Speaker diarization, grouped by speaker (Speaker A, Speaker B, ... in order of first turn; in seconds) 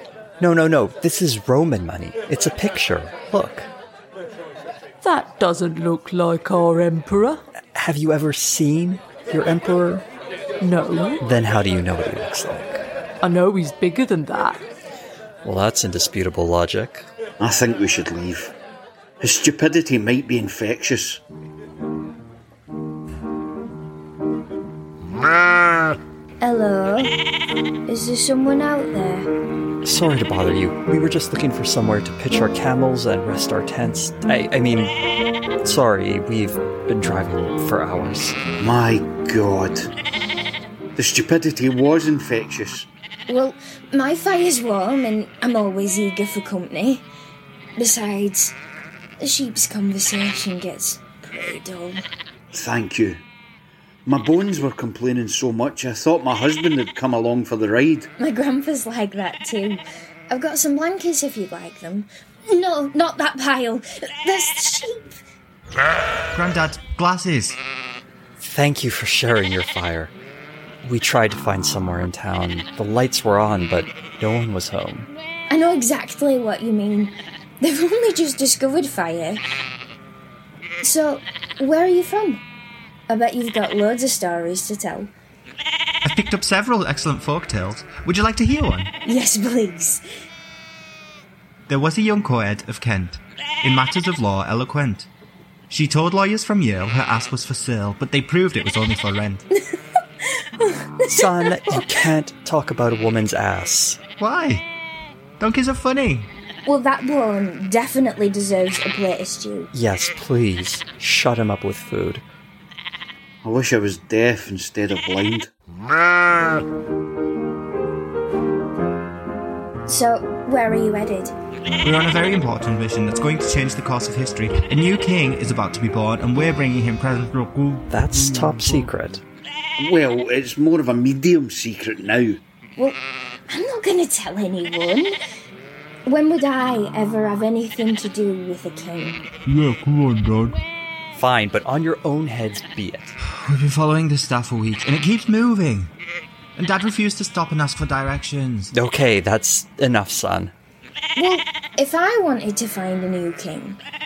Speaker A: 0.4-3.7, 7.7-10.1, 11.2-12.8, 15.4-17.1, 29.8-34.9, 35.6-38.4, 68.4-70.1, 70.8-75.1, 101.1-104.0, 109.7-112.2, 127.9-129.2, 141.1-143.1, 148.7-150.5
Speaker B: 5.0-7.4, 10.6-11.2, 13.2-14.6
Speaker C: 17.4-18.5, 19.2-21.2, 38.6-39.9, 41.0-42.9, 52.5-53.2, 54.1-58.1, 113.4-115.5, 129.8-132.4
Speaker D: 26.4-27.1, 27.9-29.3, 43.3-47.0, 47.8-48.5, 49.2-52.0, 58.2-65.1, 75.5-79.4, 80.8-82.4, 83.1-85.1, 89.0-90.0, 100.4-101.8, 106.7-109.7, 119.9-121.3, 133.5-135.2, 136.1-139.2, 151.2-153.8
Speaker E: 66.3-67.6, 86.0-88.9, 91.7-95.1, 95.7-99.5, 104.2-104.7, 105.4-106.3, 121.8-128.6, 139.5-140.6, 143.2-145.9, 146.6-148.7